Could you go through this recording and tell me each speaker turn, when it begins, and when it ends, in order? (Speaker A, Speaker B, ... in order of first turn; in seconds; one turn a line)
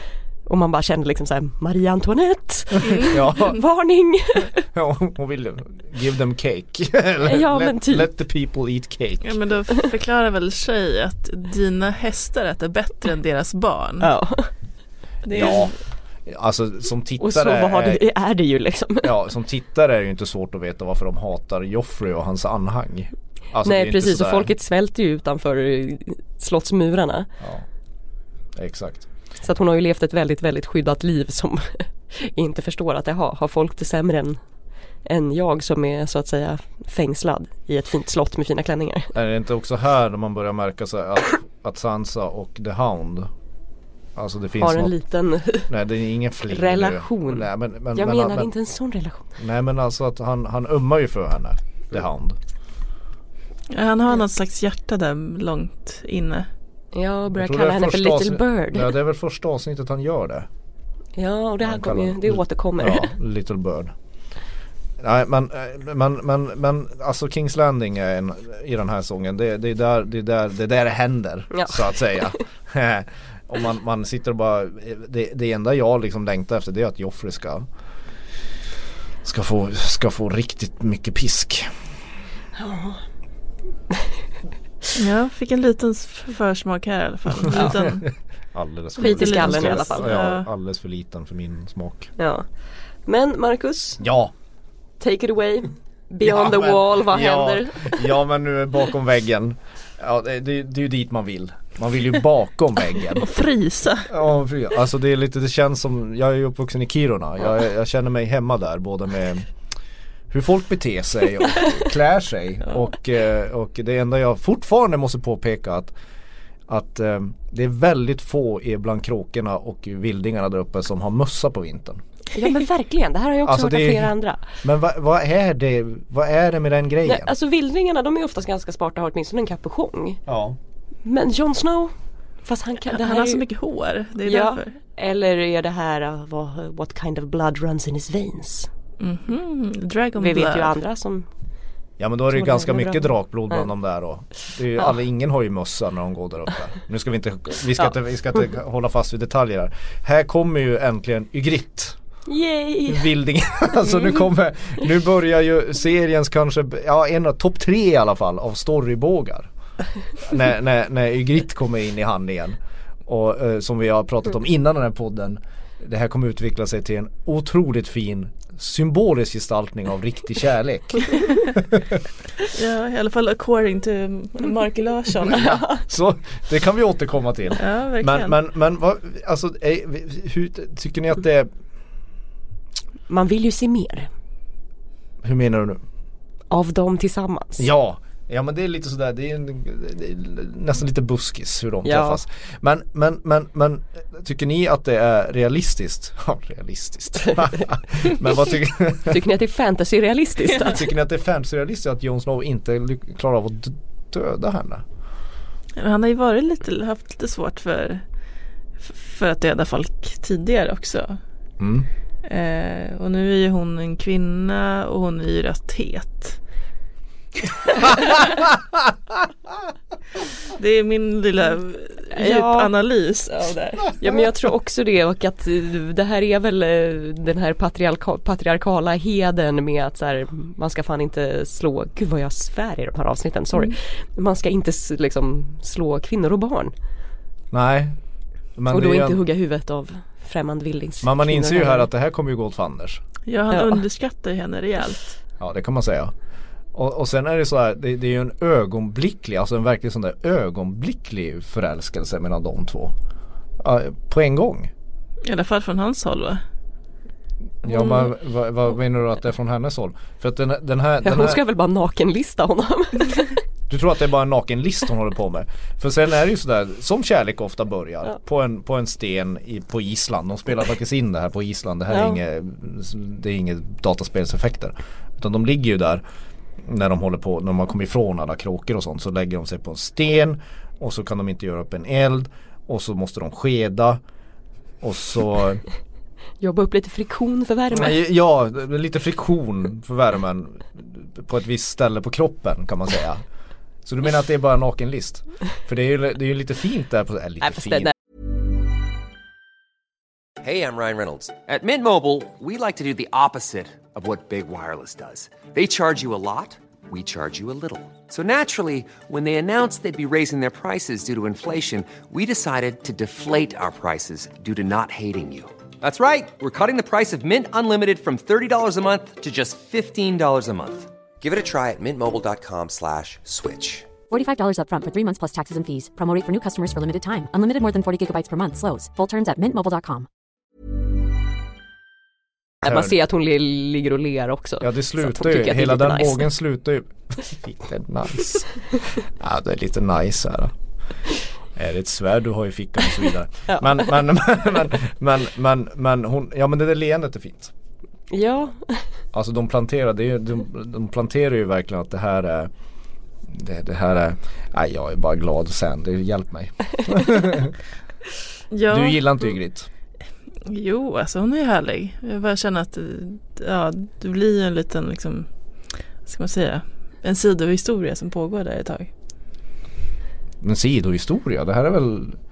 Speaker A: 0.5-4.5
Speaker B: 2.9-3.6
Speaker B: 4.7-9.3
Speaker A: 7.2-8.1
Speaker C: 9.2-14.1
Speaker A: 14.0-14.5
Speaker C: 15.2-15.7
Speaker B: 15.3-15.7
Speaker B: 16.2-18.0
Speaker A: 17.2-19.1
Speaker B: 19.0-24.5
Speaker A: 23.6-27.3
Speaker B: 27.4-27.6
Speaker B: 28.5-29.1
Speaker A: 29.4-34.4
Speaker A: 35.0-39.1
Speaker B: 39.1-43.3
Speaker B: 44.1-44.9
Speaker A: 44.6-45.7
Speaker B: 45.7-48.5
Speaker A: 46.5-49.3
Speaker B: 49.4-52.4
Speaker C: 53.7-56.5
Speaker A: 56.9-58.9
Speaker B: 57.3-60.5
Speaker A: 61.2-63.1
Speaker B: 61.6-63.9
Speaker B: 65.0-77.7
Speaker A: 71.5-72.4
Speaker B: 79.2-81.7
Speaker A: 82.5-83.0
Speaker C: 84.9-88.1
Speaker B: 87.6-88.0
Speaker B: 88.5-92.1
Speaker A: 89.0-90.1
Speaker C: 89.0-90.5
Speaker A: 92.2-92.5
Speaker A: 93.0-94.0
Speaker B: 94.0-94.3
Speaker A: 95.0-98.0
Speaker B: 96.2-103.3
Speaker C: 103.2-104.1
Speaker B: 104.0-109.5
Speaker B: 110.3-115.9
Speaker B: 116.7-122.0
Speaker A: 122.3-124.4
Speaker B: 123.4-127.3
Speaker A: 127.0-130.2
Speaker B: 130.3-130.6
Speaker A: 131.0-131.9
Speaker A: 132.4-133.4
Speaker C: 132.9-134.7
Speaker A: 134.2-138.7
Speaker C: 139.0-140.7
Speaker A: 140.2-141.3
Speaker B: 142.0-151.9
Speaker A: 142.3-143.6
Speaker A: 152.3-153.1
Speaker B: 152.9-159.5
Speaker B: 160.2-172.0
Speaker C: 172.5-175.6
Speaker B: 175.3-181.5
Speaker A: 175.4-175.8
Speaker C: 177.6-178.3
Speaker A: 183.1-184.1
Speaker B: 185.2-185.8
Speaker A: 186.5-187.7
Speaker B: 187.6-199.2
Speaker A: 191.8-192.2
Speaker A: 197.2-197.6
Speaker A: 199.1-200.8
Speaker B: 200.6-204.8
Speaker C: 205.8-208.0
Speaker C: 208.8-211.2
Speaker B: 211.6-211.9
Speaker C: 212.2-216.4
Speaker C: 217.7-218.3
Speaker C: 220.5-223.9
Speaker A: 222.1-222.7
Speaker A: 224.0-236.7
Speaker B: 237.5-238.0
Speaker B: 238.6-239.2
Speaker A: 238.7-241.9
Speaker B: 241.0-243.0
Speaker C: 243.2-245.2
Speaker A: 243.5-243.8
Speaker B: 245.4-246.1
Speaker B: 246.7-252.9
Speaker B: 253.6-254.7
Speaker C: 255.2-256.4
Speaker B: 257.6-261.4
Speaker A: 261.0-263.3
Speaker B: 263.7-276.0
Speaker A: 271.9-272.2
Speaker B: 276.6-284.0
Speaker B: 284.8-285.6
Speaker A: 286.4-288.0
Speaker B: 287.7-293.2
Speaker B: 293.9-297.9
Speaker A: 297.4-297.9
Speaker D: 300.4-323.9
Speaker E: 324.1-330.1
Speaker B: 332.6-333.0
Speaker A: 332.6-336.3
Speaker B: 334.6-340.5
Speaker B: 341.6-347.5
Speaker A: 348.1-348.9
Speaker B: 349.1-352.5
Speaker B: 353.3-357.6
Speaker C: 358.5-359.3
Speaker B: 358.7-359.7
Speaker C: 360.4-365.3
Speaker C: 366.0-368.9
Speaker B: 370.4-372.2